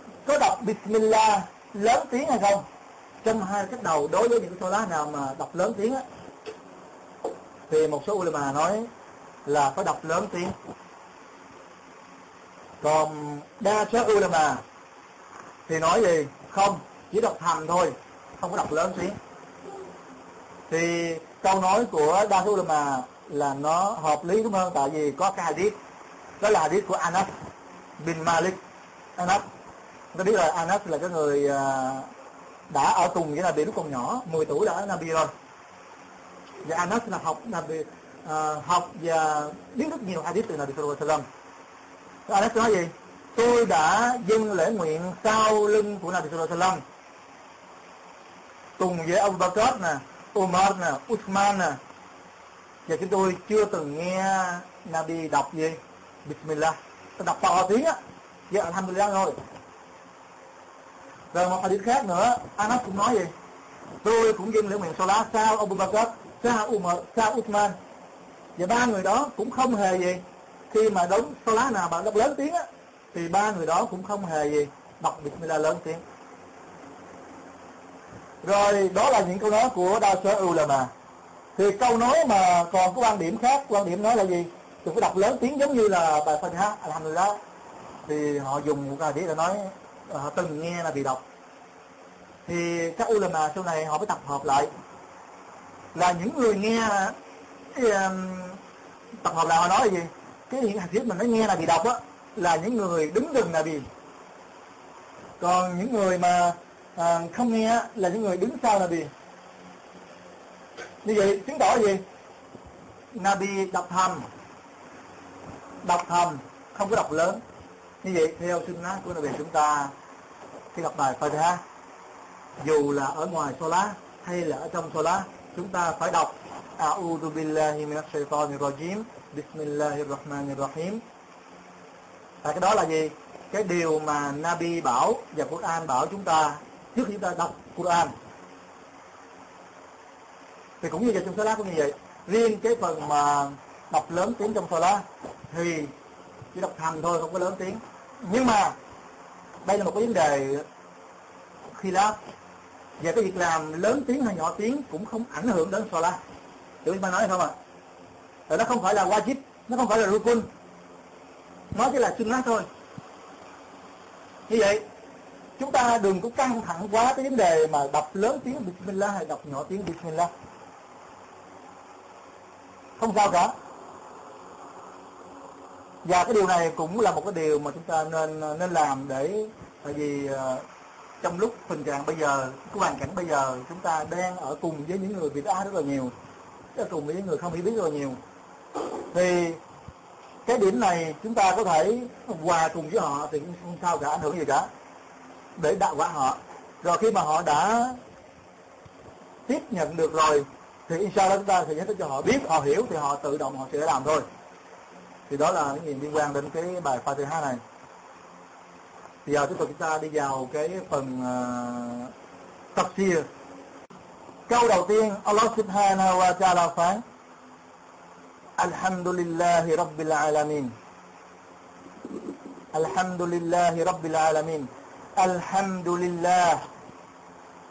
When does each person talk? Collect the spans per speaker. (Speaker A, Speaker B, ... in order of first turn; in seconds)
Speaker A: 0.2-2.6, 3.2-6.0, 7.7-8.9, 9.4-10.5, 12.8-14.6, 15.7-19.1, 20.7-25.8, 26.4-27.3, 28.0-28.6, 29.2-29.4, 30.1-32.1, 32.7-35.3, 36.6-41.2, 42.3-46.8, 48.8-51.8, 52.9-58.0, 58.5-59.4, 61.3-63.3, 64.0-67.8, 68.6-76.0, 78.4-80.9, 81.5-87.4, 88.1-91.2, 92.5-94.7, 95.9-97.2, 97.7-98.6, 99.2-103.9, 105.4-109.1, 111.0-112.0, 113.1-114.2, 115.8-117.4, 118.0-119.9, 120.7-121.6, 122.6-131.0, 132.4-138.1, 140.8-145.9, 146.5-148.8, 149.6-150.7, 151.7-152.2, 153.0-156.2, 156.8-157.6, 158.5-160.5, 161.7-162.7, 164.5-164.8, 165.6-170.3, 173.0-173.5, 176.0-180.6, 181.2-186.1, 186.7-188.2, 189.1-189.6, 190.4-194.7, 195.6-198.0, 199.5-204.2, 205.3-207.6, 209.2-212.1, 212.7-213.2, 214.5-217.0, 218.6-220.7, 222.7-226.6